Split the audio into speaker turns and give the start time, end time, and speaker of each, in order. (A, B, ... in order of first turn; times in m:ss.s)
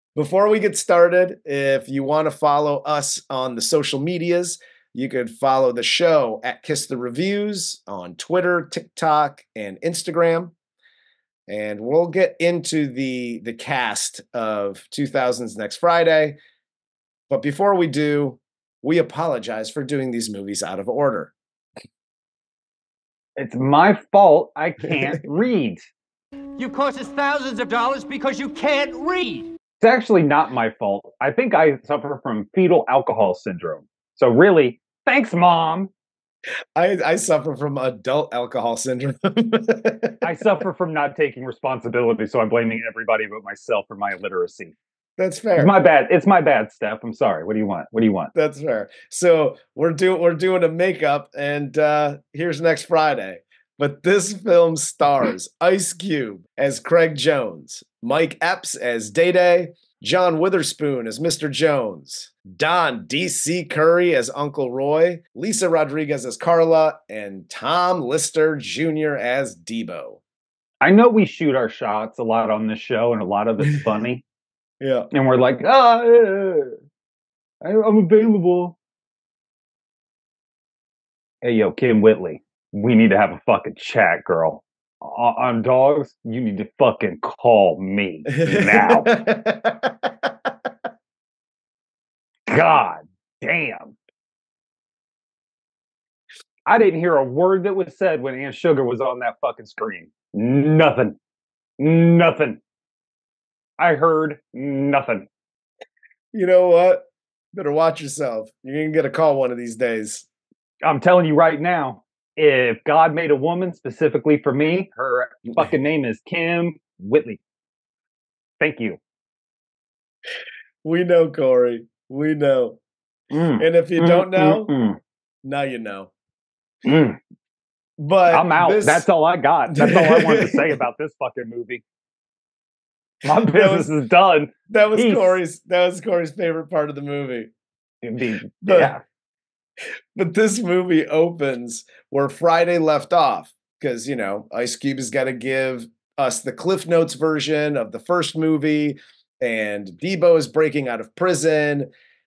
0:00.2-0:10.5 A
0:11.5-0:16.4 A
0:17.3-0:21.3 A
0:23.4-0:25.8 B
0:26.6-0:29.5 C
0:29.8-0:35.9 B
0:36.7-0:40.2 A
0:40.2-0:44.7 B
0:45.2-0:45.7 A
0:45.6-0:48.3 B
0:48.3-1:10.2 A
1:10.8-1:14.2 B
1:14.8-1:15.1 A
1:15.1-1:16.7 B
1:17.6-1:18.8 B
1:21.4-1:29.1 B
1:28.4-1:30.5 A
1:32.5-1:34.0 B
1:36.6-1:41.2 B
1:41.8-1:42.6 B
1:43.8-1:45.3 B
1:46.3-1:50.2 A
1:50.8-1:57.4 B
1:58.6-1:59.0 B
2:00.8-2:02.8 A
2:03.3-2:05.0 B
2:03.6-2:04.7 A
2:05.4-2:06.1 A
2:06.8-2:07.2 B
2:08.0-2:09.0 A
2:08.3-2:11.8 B
2:09.7-2:10.7 A
2:13.2-2:15.4 B
2:13.2-2:13.9 A
2:14.7-2:17.5 A
2:18.0-2:19.0 B
2:18.6-2:18.9 A
2:20.1-2:31.9 A